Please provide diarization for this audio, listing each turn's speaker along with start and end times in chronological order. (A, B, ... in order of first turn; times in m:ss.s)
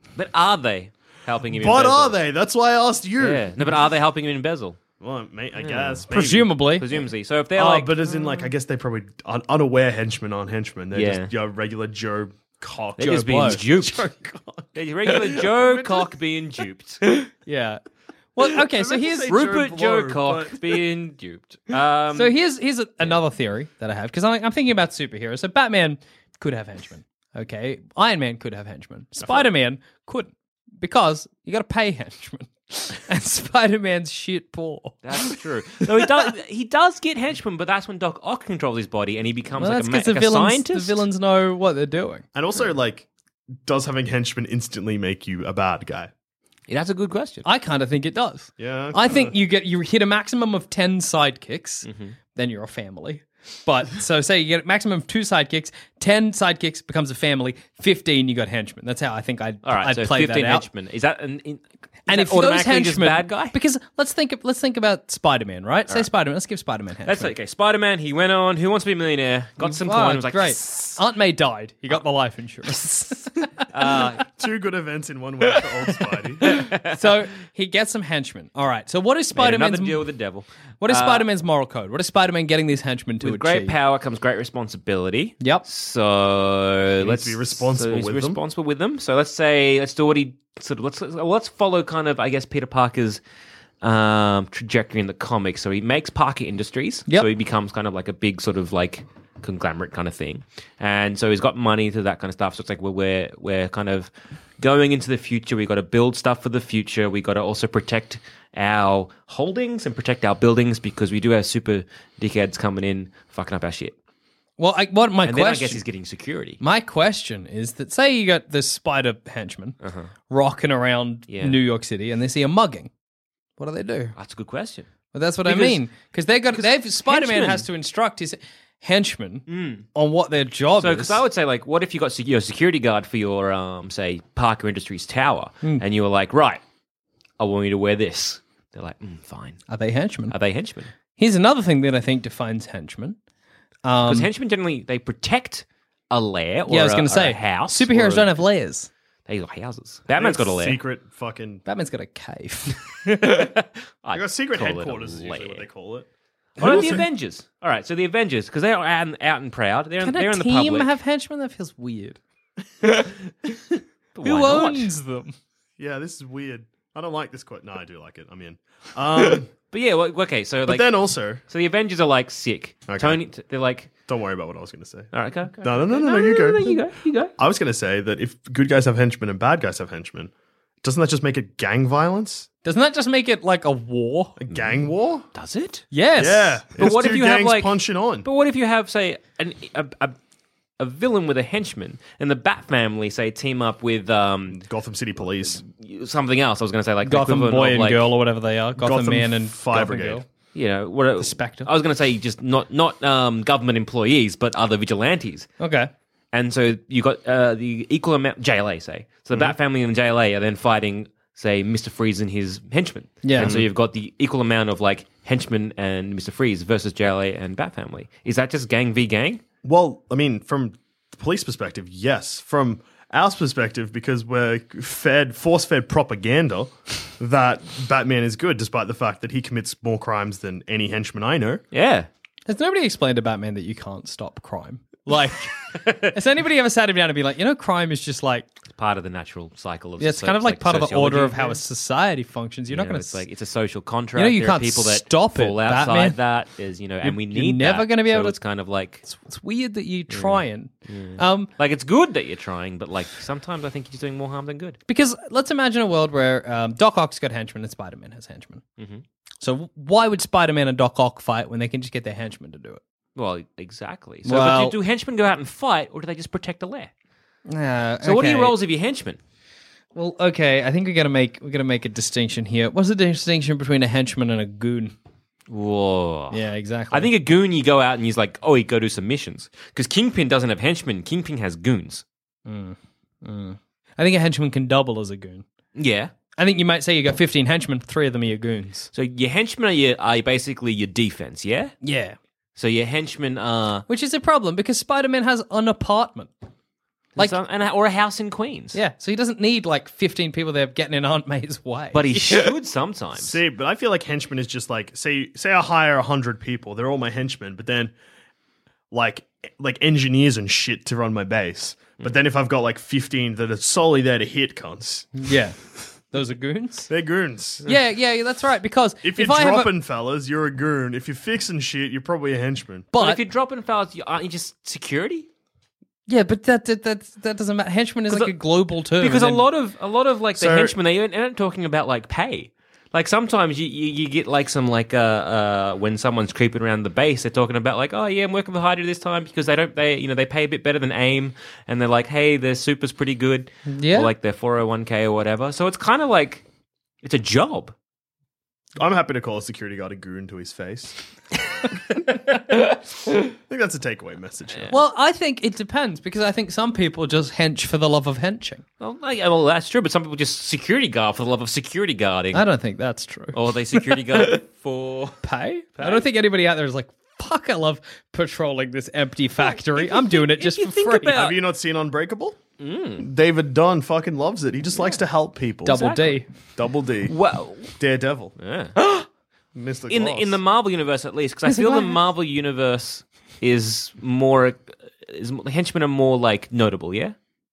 0:00.2-0:02.2 A
0:01.6-0:03.8 B
0:03.2-0:04.8 A
0:05.0-0:06.7 B
0:05.6-0:06.1 A
0:06.1-0:06.9 C
0:06.7-0:08.2 A
0:07.5-0:16.1 B
0:10.9-0:11.3 A
0:13.0-0:14.0 A
0:13.1-0:13.6 C
0:14.7-0:17.1 A
0:17.4-0:17.8 C
0:18.3-0:19.3 C
0:18.4-0:20.8 B
0:19.3-0:22.3 A
0:22.1-0:35.4 C
0:35.0-0:41.0 A
0:39.6-0:42.2 C
0:42.3-0:43.1 B
0:43.6-0:46.1 B
0:46.7-0:47.4 A
0:47.4-1:00.6 C
0:48.6-0:49.3 B
0:51.8-0:52.2 A
0:59.6-1:03.6 A
1:02.1-1:07.3 C
1:07.0-1:11.0 A
1:09.6-1:14.1 C
1:13.7-1:14.2 A
1:14.3-1:16.6 B
1:16.4-1:17.0 A
1:16.8-1:20.0 C
1:19.3-1:21.3 A
1:20.8-1:23.7 C
1:23.2-1:33.2 A
1:25.4-1:25.6 C
1:27.0-1:28.4 B
1:33.8-1:53.9 A
1:54.6-1:55.8 C
1:55.2-1:56.6 A
1:56.6-1:59.8 C
1:59.8-2:00.1 A
2:00.3-2:02.9 C
2:01.3-2:01.6 A
2:03.6-2:04.2 C
2:04.2-2:04.9 A
2:05.1-2:11.2 C
2:05.4-2:05.8 A
2:06.5-2:07.7 A
2:09.5-2:09.8 A
2:10.8-2:16.6 A
2:17.4-2:19.6 A
2:19.7-2:20.3 C
2:20.3-2:20.9 A
2:21.2-2:23.2 C
2:23.8-2:24.3 C
2:24.0-2:28.3 A
2:26.7-2:28.9 C
2:29.3-2:30.8 A
2:30.2-2:31.6 B
2:31.6-2:33.4 C
2:33.1-2:35.6 A
2:34.1-2:36.1 B
2:36.6-2:37.0 B
2:36.6-2:40.9 A
2:36.6-2:37.0 C
2:40.0-2:42.2 C
2:44.1-2:44.9 A
2:44.2-2:45.3 C
2:45.8-2:49.5 B
2:49.7-2:50.9 A
2:50.7-2:51.4 B
2:51.4-2:53.9 A
2:52.9-2:53.2 B
2:54.1-2:56.8 B
2:55.1-2:57.3 A
2:57.4-3:00.3 B
3:00.8-3:02.5 B
3:02.6-3:04.4 C
3:04.4-3:05.2 B
3:05.3-3:05.8 A
3:05.9-3:06.6 C
3:06.2-3:08.2 B
3:06.8-3:10.2 A
3:10.8-3:14.6 A
3:14.5-3:15.6 B
3:15.6-3:18.0 A
3:17.0-3:20.2 C
3:18.8-3:20.2 B
3:20.5-3:25.5 A
3:21.2-3:21.7 C
3:25.6-3:25.9 C
3:26.3-3:39.4 A
3:33.2-3:33.6 C
3:33.3-3:33.6 B
3:39.6-3:51.6 B
3:51.7-3:52.1 A
3:52.5-3:55.6 C
3:55.7-3:56.1 A
3:56.1-3:58.5 C
3:58.8-4:01.6 A
4:00.0-4:03.2 C
4:02.7-4:09.0 A
4:04.1-4:06.2 C
4:07.0-4:08.4 C
4:09.0-4:11.5 C
4:10.1-4:14.8 A
4:14.9-4:18.6 C
4:18.8-4:19.0 A
4:19.4-4:22.8 C
4:23.2-4:26.9 A
4:24.2-4:24.8 C
4:27.5-4:28.6 C
4:28.0-4:29.2 A
4:29.9-4:34.9 C
4:35.5-4:42.0 A
4:36.3-4:37.1 C
4:42.4-4:45.4 C
4:45.8-4:46.1 A
4:46.4-4:48.9 C
4:48.9-4:51.8 A
4:51.8-4:52.2 C
4:52.6-4:53.8 A
4:53.9-4:56.3 C
4:57.2-4:58.8 A
4:58.7-5:02.5 C
5:01.9-5:03.4 A
5:03.2-5:07.9 B
5:08.9-5:15.1 B
5:15.1-5:15.6 C
5:16.1-5:16.9 C
5:16.9-5:17.6 B
5:17.6-5:19.7 C
5:19.0-5:22.9 B
5:22.9-5:23.2 C
5:22.9-5:25.3 A
5:26.1-5:29.4 C
5:28.1-5:28.3 A
5:29.0-5:46.4 A
5:30.4-5:30.7 B
5:43.7-5:44.1 C
5:47.0-5:47.7 A
5:48.8-5:51.0 B
5:53.3-5:54.8 B
5:54.7-5:58.6 C
5:58.8-6:02.4 A
6:02.3-6:04.4 C
6:03.3-6:05.2 A
6:05.2-6:11.2 C
6:09.4-6:11.4 A
6:11.1-6:12.4 B
6:12.6-6:13.1 A
6:13.0-6:15.9 B
6:15.6-6:16.3 C
6:15.7-6:16.2 A
6:16.6-6:17.1 B
6:17.1-6:17.8 A
6:17.8-6:18.3 B
6:18.4-6:19.0 A
6:19.5-6:20.4 B
6:19.9-6:27.1 A
6:21.4-6:22.0 C